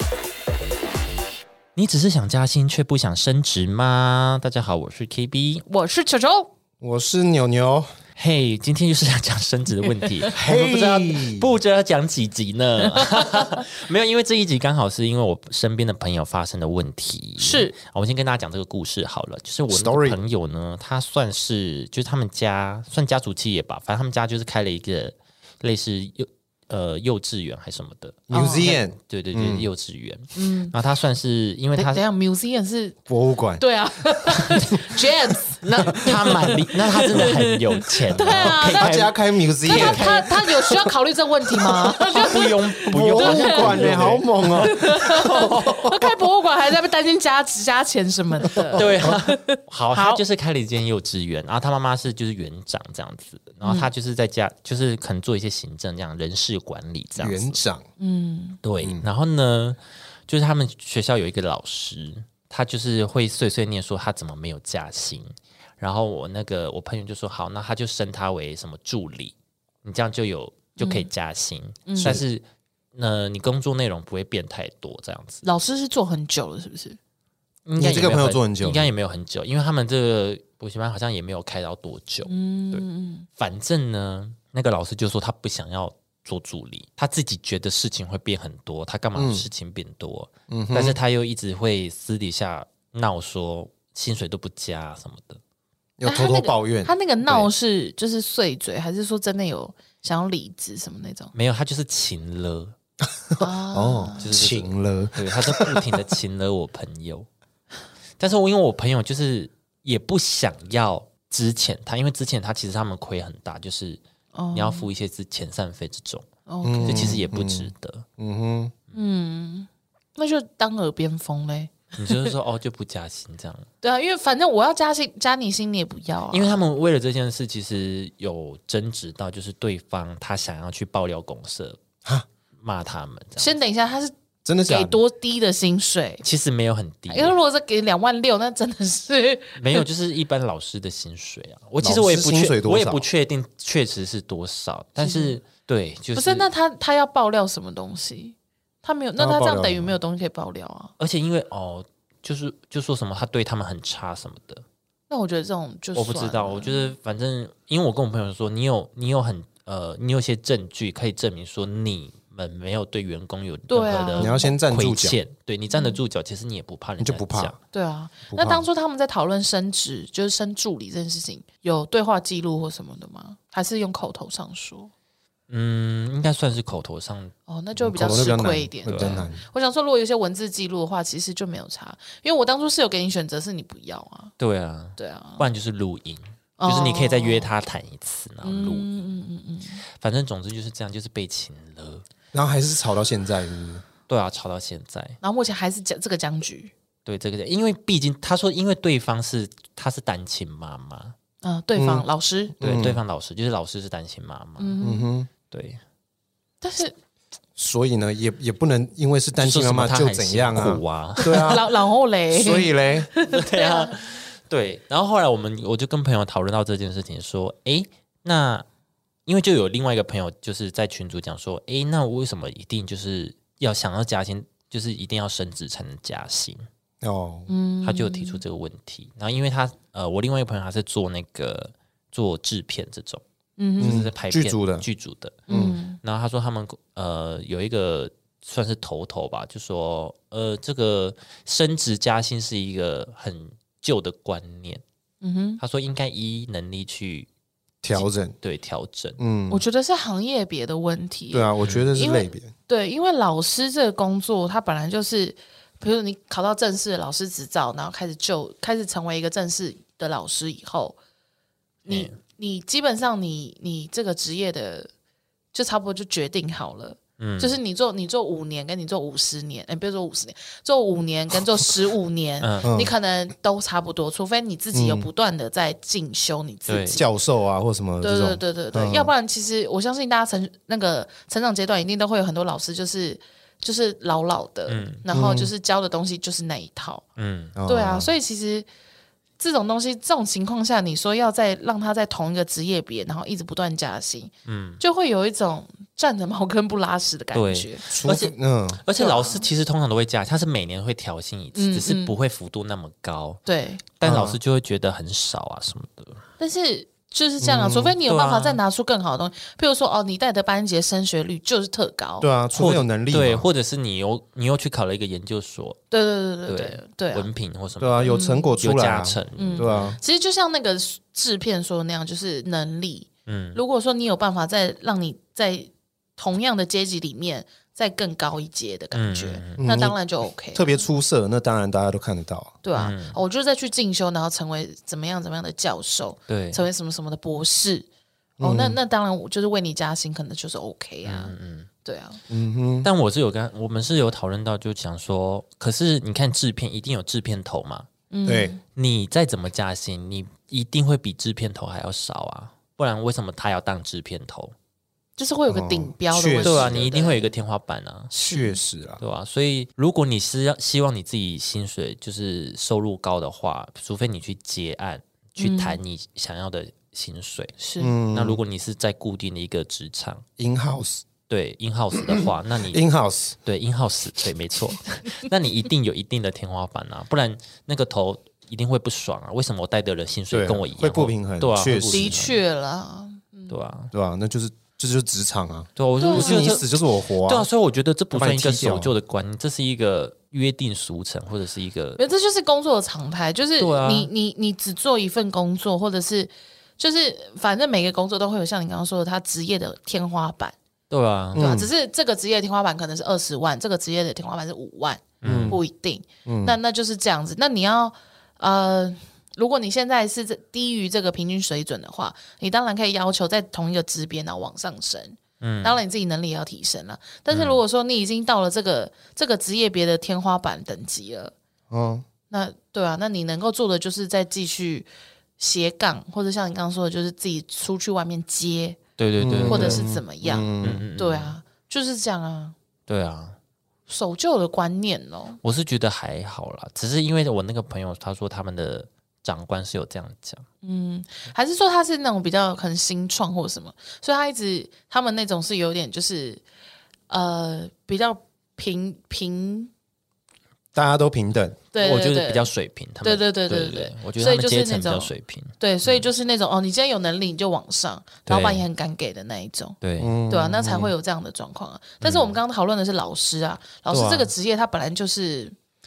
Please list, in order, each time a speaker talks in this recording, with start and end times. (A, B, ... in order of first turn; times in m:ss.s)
0:01.8-0:05.6 A
0:05.7-0:06.5 B
0:06.8-0:07.9 C
0:08.2-0:28.2 A
0:10.4-0:11.5 C
0:13.0-0:13.4 B
0:17.4-0:17.7 B
0:19.7-0:20.2 C
0:28.3-0:29.7 C
0:28.3-0:28.8 B
0:29.0-0:32.0 A
0:30.3-0:30.7 B
0:31.7-0:33.0 B
0:33.1-0:33.6 C
0:33.6-0:37.6 B
0:35.6-0:39.1 A
0:35.9-0:36.5 C
0:38.1-0:39.0 B
0:38.2-0:40.1 C
0:39.6-0:50.2 B
0:39.6-0:40.2 A
0:41.5-0:42.2 C
0:42.1-0:46.0 A
0:42.9-0:44.7 C
0:45.4-0:45.9 C
0:48.5-0:49.2 C
0:48.7-0:57.6 A
0:53.6-0:53.9 B
0:57.2-0:57.8 C
0:58.0-0:58.6 B
0:58.6-0:59.8 A
0:58.8-0:59.1 C
1:00.3-1:12.4 A
1:10.8-1:11.1 B
1:11.8-1:12.2 B
1:12.0-1:12.2 C
1:12.9-1:15.4 A
1:15.4-1:17.0 B
1:17.6-1:22.8 A
1:17.8-1:18.9 C
1:22.2-1:23.3 B
1:23.4-1:35.4 A
1:29.1-1:29.5 C
1:30.5-1:31.0 C
1:36.0-1:36.9 C
1:36.0-1:41.3 B
1:41.3-1:42.7 A
1:43.3-1:45.9 C
1:43.4-1:44.2 B
1:44.2-1:47.3 A
1:48.2-1:54.0 A
1:54.3-1:54.9 B
1:54.5-1:56.3 A
1:56.5-1:57.2 B
1:56.6-1:58.7 C
1:56.8-1:58.0 A
1:58.9-2:02.1 B
2:02.0-2:03.7 A
2:03.8-2:06.6 B
2:06.3-2:11.8 A
2:12.6-2:13.6 A
2:13.4-2:16.2 B
2:14.4-2:15.0 C
2:16.2-2:17.4 A
2:17.1-2:19.8 B
2:19.6-2:26.5 A
2:21.8-2:23.0 C
2:25.0-2:25.4 B
2:26.1-2:30.9 B
2:29.2-2:29.9 C
2:31.0-2:34.6 A
2:35.1-2:36.9 B
2:35.9-2:47.6 A
2:43.7-2:44.5 B
2:44.2-2:45.2 C
2:45.7-2:46.0 B
2:47.0-2:47.5 C
2:47.7-2:54.9 B
2:48.3-2:48.6 C
2:55.5-2:57.3 A
2:57.5-3:04.3 B
2:57.8-2:59.4 C
2:58.9-2:59.2 A
3:04.4-3:09.0 A
3:05.0-3:05.4 B
3:06.6-3:07.5 B
3:08.4-3:09.8 B
3:10.0-3:12.0 A
3:12.3-3:13.8 C
3:14.1-3:15.2 A
3:15.2-3:16.7 B
3:17.0-3:21.1 A
3:21.4-3:22.5 B
3:21.7-3:22.0 C
3:22.6-3:23.0 C
3:22.6-3:24.8 A
3:24.6-3:25.1 B
3:24.8-3:25.3 C
3:25.5-3:25.8 A
3:26.6-3:26.9 B
3:27.6-3:31.7 C
3:29.4-3:31.6 A
3:31.2-3:34.1 B
3:32.3-3:33.1 C
3:33.2-3:38.6 A
3:39.3-3:46.6 A
3:47.0-3:47.5 C
3:47.5-3:48.4 B
3:47.8-3:53.2 A
3:53.6-3:54.0 B
3:53.8-4:04.8 A
3:53.8-3:54.8 C
3:55.5-3:56.0 B
3:55.5-3:55.8 C
4:05.2-4:05.6 B
4:05.6-4:07.3 A
4:07.8-4:08.4 C
4:07.9-4:09.2 A
4:09.2-4:09.6 C
4:09.5-4:21.0 B
4:11.3-4:12.5 C
4:11.6-4:11.9 A
4:21.8-4:22.1 A
4:21.9-4:24.9 B
4:25.5-4:37.0 B
4:27.2-4:27.6 A
4:32.4-4:32.7 A
4:32.6-4:32.9 C
4:34.7-4:35.1 C
4:36.7-4:37.0 A
4:36.9-4:39.1 C
4:38.0-4:47.0 B
4:44.7-4:45.0 A
4:45.1-4:45.5 C
4:47.2-4:47.5 A
4:47.5-4:48.1 C
4:47.6-4:48.6 B
4:49.4-4:57.8 B
4:54.4-4:54.8 A
4:57.3-5:03.4 A
4:57.9-4:58.8 C
4:59.0-4:59.4 B
5:01.5-5:02.1 B
5:03.4-5:03.8 B
5:04.0-5:06.2 A
5:04.0-5:04.4 C
5:06.4-5:12.3 B
5:07.4-5:07.9 C
5:08.0-5:08.6 A
5:12.2-5:13.4 C
5:12.5-5:15.8 A
5:15.9-5:17.3 B
5:16.5-5:20.0 A
5:17.8-5:20.0 C
5:18.0-5:18.5 B
5:19.4-5:30.8 B
5:23.2-5:23.6 A
5:28.9-5:29.6 A
5:29.6-5:30.0 C
5:30.5-5:32.6 C
5:32.6-5:37.8 B
5:32.7-5:33.2 A
5:36.3-5:36.6 A
5:38.4-5:38.8 C
5:38.4-5:42.2 B
5:41.0-5:41.7 A
5:42.3-5:42.9 C
5:42.8-5:47.9 A
5:48.1-5:48.6 B
5:48.2-5:48.6 C
5:48.7-5:54.5 A
5:55.2-5:57.3 B
5:55.5-5:56.8 C
5:56.4-5:58.1 A
5:58.1-5:59.0 C
5:58.2-5:58.6 B
5:59.0-6:07.6 A
6:05.4-6:05.8 B
6:07.6-6:08.0 B
6:07.8-6:08.4 C
6:08.1-6:10.2 A
6:10.4-6:11.0 C
6:11.3-6:12.8 A
6:12.0-6:13.4 C
6:13.4-6:22.4 A
6:20.3-6:22.2 C
6:21.9-6:23.5 B
6:23.5-6:23.9 A
6:23.9-6:27.5 C
6:25.8-6:32.0 A
6:26.0-6:26.6 B
6:28.1-6:28.9 C
6:32.0-6:40.6 B
6:33.6-6:34.1 A
6:40.9-6:41.5 A
6:41.3-6:41.7 C
6:41.3-7:01.3 B
6:45.2-6:45.6 A
6:45.2-6:45.6 C
6:46.2-6:46.6 C
6:55.4-6:55.8 A
6:57.3-6:57.6 A
7:01.7-7:02.0 C
7:02.3-7:08.8 B
7:09.0-7:09.9 A
7:09.2-7:10.8 C
7:09.5-7:12.5 B
7:10.6-7:11.3 A
7:12.9-7:13.4 A
7:13.9-7:15.4 B
7:15.4-7:20.4 A
7:20.6-7:26.4 B
7:27.1-7:29.7 B
7:30.7-7:31.6 C
7:31.7-7:32.5 B
7:31.8-7:36.1 A
7:33.0-7:39.8 B
7:38.3-7:38.6 A
7:39.8-7:40.1 A
7:40.0-7:40.9 C
7:40.3-7:45.5 B
7:42.0-7:42.4 A
7:43.9-7:44.3 A